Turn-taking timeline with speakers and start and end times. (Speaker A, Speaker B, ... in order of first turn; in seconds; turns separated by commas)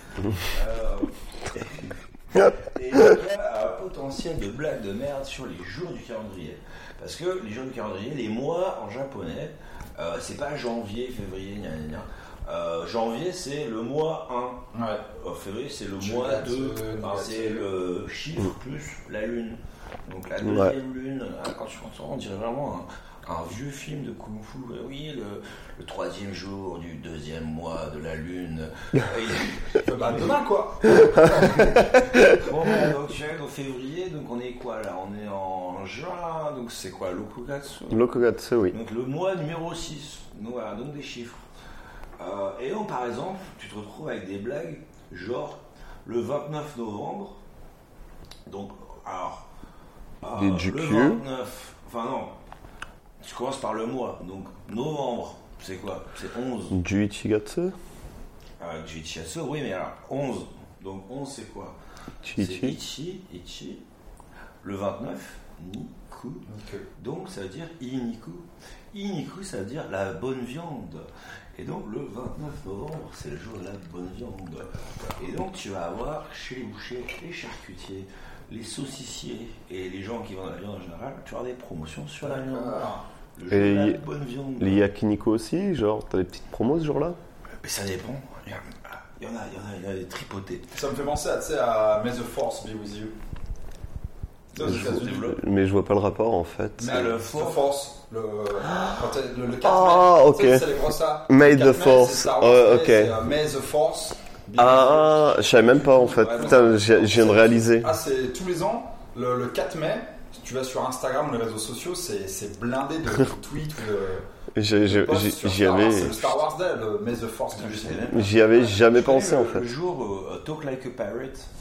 Speaker A: 0.3-30.4, Speaker B: 14.7-15.0, Speaker B: 16.0-17.7, Speaker C: 20.4-20.7, Speaker B: 29.8-31.8, Speaker A: 31.4-38.2, Speaker C: 37.9-38.8, Speaker A: 38.7-41.4, Speaker A: 42.2-47.4, Speaker A: 48.5-49.5, Speaker A: 50.2-52.4, Speaker C: 50.3-51.2, Speaker A: 53.2-56.8, Speaker C: 56.7-57.7, Speaker A: 58.6-61.8, Speaker C: 62.2-62.8, Speaker A: 62.4-63.8, Speaker A: 64.6-66.5, Speaker B: 66.5-66.9, Speaker A: 67.0-84.8, Speaker B: 82.2-83.0, Speaker C: 83.5-84.0, Speaker C: 84.6-87.2, Speaker A: 87.6-90.7, Speaker B: 90.7-93.1, Speaker B: 94.5-95.3, Speaker A: 94.6-95.4, Speaker C: 94.6-97.1, Speaker B: 96.8-114.2, Speaker A: 96.8-97.7, Speaker C: 99.6-103.2, Speaker C: 104.5-108.0, Speaker A: 105.7-107.4, Speaker C: 114.5-116.4, Speaker B: 114.8-118.1, Speaker A: 117.5-121.5, Speaker C: 118.1-119.7